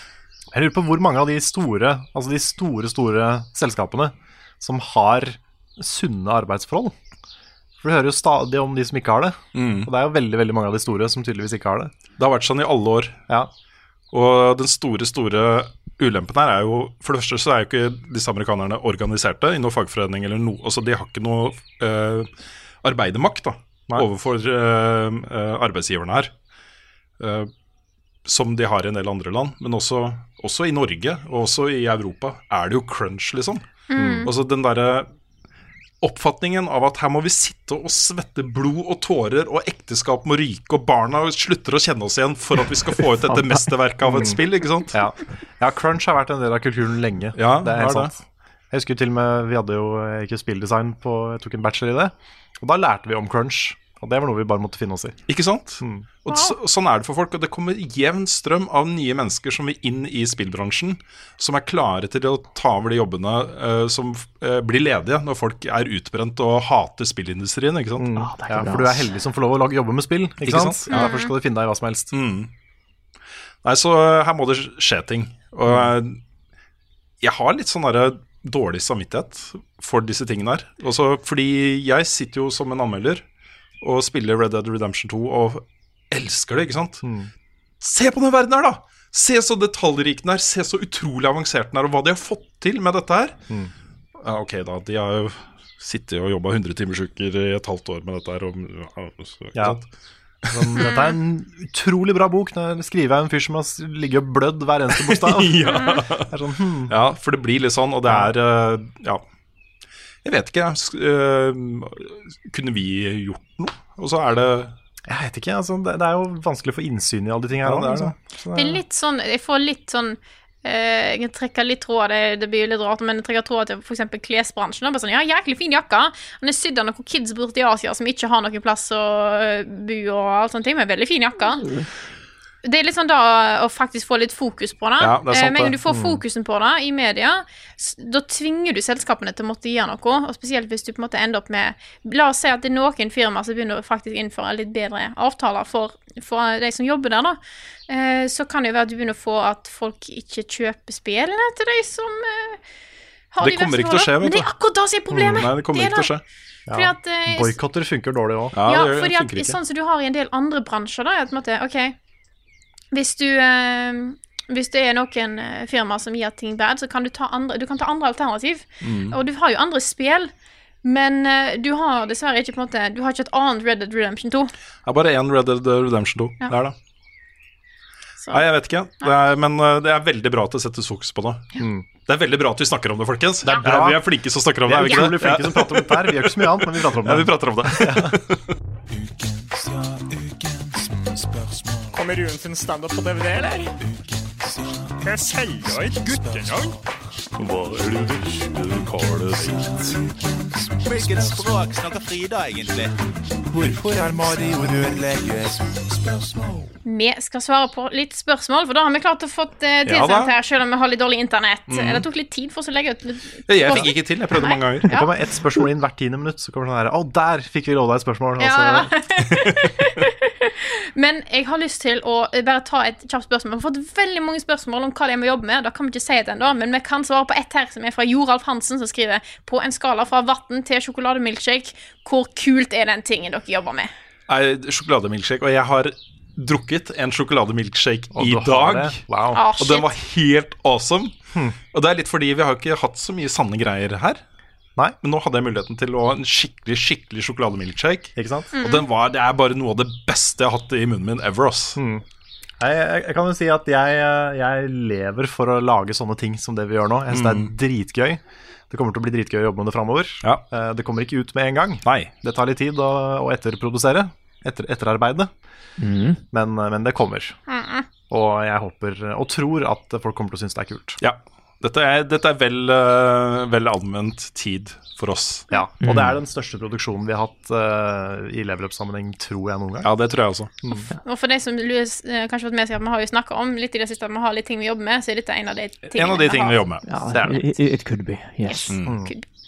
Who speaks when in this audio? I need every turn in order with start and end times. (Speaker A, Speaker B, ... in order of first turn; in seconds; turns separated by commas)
Speaker A: 0.5-6.9, Speaker A: 7.8-11.9, Speaker B: 9.5-9.9, Speaker B: 12.2-13.2, Speaker B: 14.1-22.3, Speaker B: 22.8-26.3, Speaker B: 27.2-27.5, Speaker B: 28.2-33.6, Speaker C: 33.9-34.3, Speaker A: 33.9-34.3, Speaker B: 34.2-35.1, Speaker B: 36.0-45.0, Speaker D: 43.3-43.7, Speaker A: 44.0-48.2, Speaker B: 47.4-48.1, Speaker A: 48.7-55.2, Speaker B: 55.3-68.2, Speaker A: 55.8-56.1, Speaker C: 56.3-56.5, Speaker A: 68.0-72.1, Speaker D: 68.2-69.1, Speaker B: 70.4-71.1, Speaker C: 70.9-71.3, Speaker B: 72.1-72.5, Speaker B: 73.6-76.2, Speaker A: 75.7-75.9, Speaker B: 77.2-83.2, Speaker B: 83.8-87.0, Speaker A: 87.0-87.3, Speaker B: 87.8-93.4, Speaker B: 94.2-99.8, Speaker B: 100.5-100.8, Speaker A: 100.5-107.0, Speaker C: 100.8-101.2, Speaker B: 105.0-106.3, Speaker B: 106.9-109.2, Speaker A: 108.0-108.3, Speaker B: 110.2-114.7, Speaker A: 115.1-118.8, Speaker B: 117.6-118.1, Speaker C: 118.5-131.7, Speaker C: 132.6-152.6, Speaker B: 135.0-135.7, Speaker A: 135.9-136.2, Speaker C: 153.3-156.1, Speaker B: 153.4-154.5, Speaker A: 155.1-155.5, Speaker B: 155.2-156.2, Speaker A: 156.7-158.6, Speaker C: 156.7-157.5, Speaker B: 158.5-159.6, Speaker C: 158.6-161.9, Speaker C: 162.9-170.3, Speaker B: 168.8-169.2, Speaker C: 170.8-174.5, Speaker B: 174.8-176.7, Speaker C: 178.2-178.4, Speaker B: 178.3-181.5, Speaker A: 181.6-181.8, Speaker B: 182.0-188.4, Speaker C: 183.4-183.9, Speaker A: 183.4-184.0, Speaker A: 184.6-188.2, Speaker E: 189.5-190.0, Speaker F: 191.9-193.7, Speaker E: 194.0-194.9, Speaker F: 195.0-196.7, Speaker E: 196.1-196.4, Speaker B: 197.4-199.7, Speaker E: 199.7-200.1, Speaker E: 200.7-206.6, Speaker C: 206.8-215.1, Speaker B: 209.8-210.3, Speaker B: 211.7-212.0, Speaker B: 213.5-214.9, Speaker A: 214.9-218.9, Speaker C: 218.4-233.9, Speaker B: 234.3-239.0, Speaker A: 238.1-239.4, Speaker C: 239.3-239.9, Speaker B: 239.6-241.2, Speaker B: 241.7-244.2, Speaker B: 245.0-251.8, Speaker A: 248.2-248.5, Speaker C: 248.5-248.8, Speaker A: 251.8-252.0, Speaker A: 252.6-265.3, Speaker B: 257.1-257.5, Speaker B: 261.8-262.1, Speaker D: 265.8-266.2, Speaker A: 266.3-267.4, Speaker C: 267.5-267.9, Speaker A: 268.1-271.0, Speaker B: 271.0-275.4, Speaker A: 275.5-279.9, Speaker D: 275.8-276.1, Speaker B: 279.8-280.5, Speaker A: 280.6-280.9, Speaker C: 280.7-286.6, Speaker B: 285.9-287.4, Speaker D: 286.9-288.7, Speaker B: 288.7-289.0, Speaker A: 288.8-289.1